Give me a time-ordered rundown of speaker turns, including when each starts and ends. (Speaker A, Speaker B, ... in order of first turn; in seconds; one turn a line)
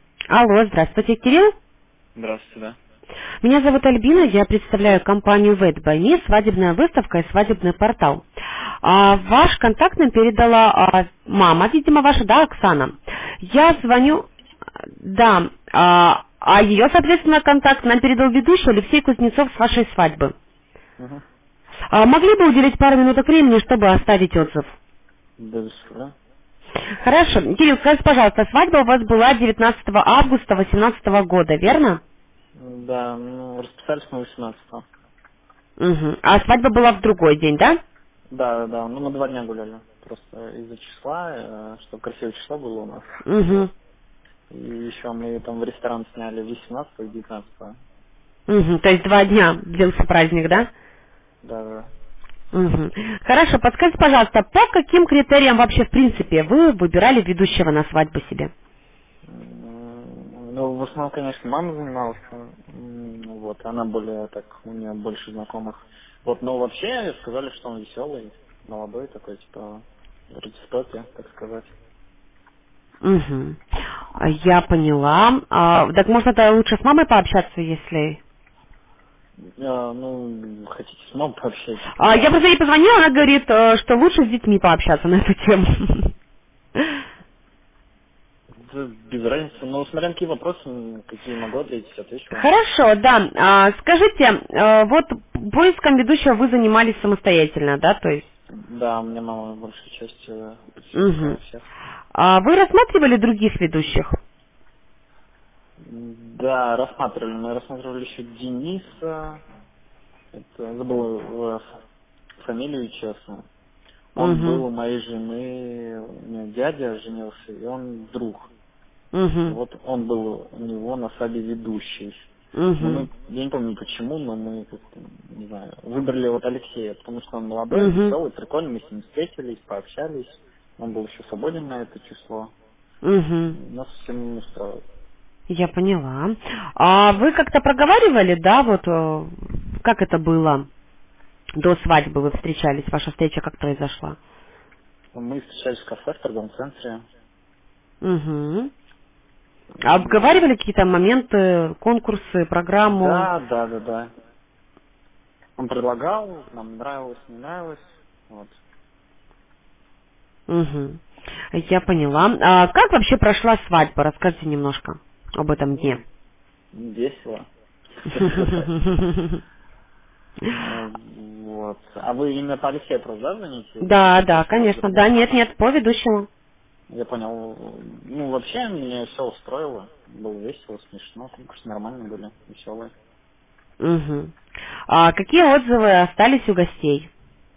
Speaker A: 0.3-1.5
Speaker B: 2.2-2.8
Speaker A: 3.4-8.2
Speaker A: 8.8-14.3
Speaker A: 15.0-20.3
Speaker B: 21.0-21.2
Speaker A: 21.9-24.7
Speaker B: 25.4-26.1
Speaker A: 27.0-32.0
Speaker B: 32.6-34.9
Speaker A: 35.8-37.8
Speaker B: 38.3-43.6
Speaker A: 43.2-43.7
Speaker B: 44.5-47.8
Speaker A: 48.5-50.7
Speaker B: 51.4-51.9
Speaker A: 52.5-58.5
Speaker B: 59.2-71.7
Speaker A: 73.0-73.6
Speaker A: 74.2-78.2
Speaker B: 79.4-82.4
Speaker A: 81.9-86.1
Speaker A: 86.8-87.0
Speaker B: 88.5-92.5
Speaker A: 92.3-98.3
Speaker B: 98.5-101.7
Speaker A: 100.9-101.4
Speaker A: 102.1-104.2
Speaker B: 105.8-109.4
Speaker B: 110.3-111.6
Speaker B: 112.4-113.5
Speaker B: 114.2-118.5
Speaker A: 114.2-114.7
Speaker A: 119.1-119.6
Speaker B: 119.5-122.2
Speaker A: 122.5-123.1
Speaker B: 122.8-132.5
Speaker A: 127.7-128.2
Speaker A: 133.0-133.6
Speaker B: 133.5-134.8
Speaker A: 135.5-140.7
Speaker A: 141.6-144.2
Speaker B: 145.1-147.0
Speaker A: 148.0-148.7
Speaker A: 149.8-153.3
Speaker B: 149.9-150.4
Speaker B: 152.8-154.1
Speaker B: 155.6-158.6
Speaker A: 160.5-161.0
Speaker A: 161.5-166.0
Speaker B: 165.5-166.0
Speaker B: 166.7-167.5
Speaker B: 168.1-168.7
Speaker A: 168.2-169.4
Speaker B: 170.6-175.1
Speaker A: 173.8-176.3
Speaker B: 176.9-182.9
Speaker A: 183.8-184.3
Speaker A: 184.9-187.1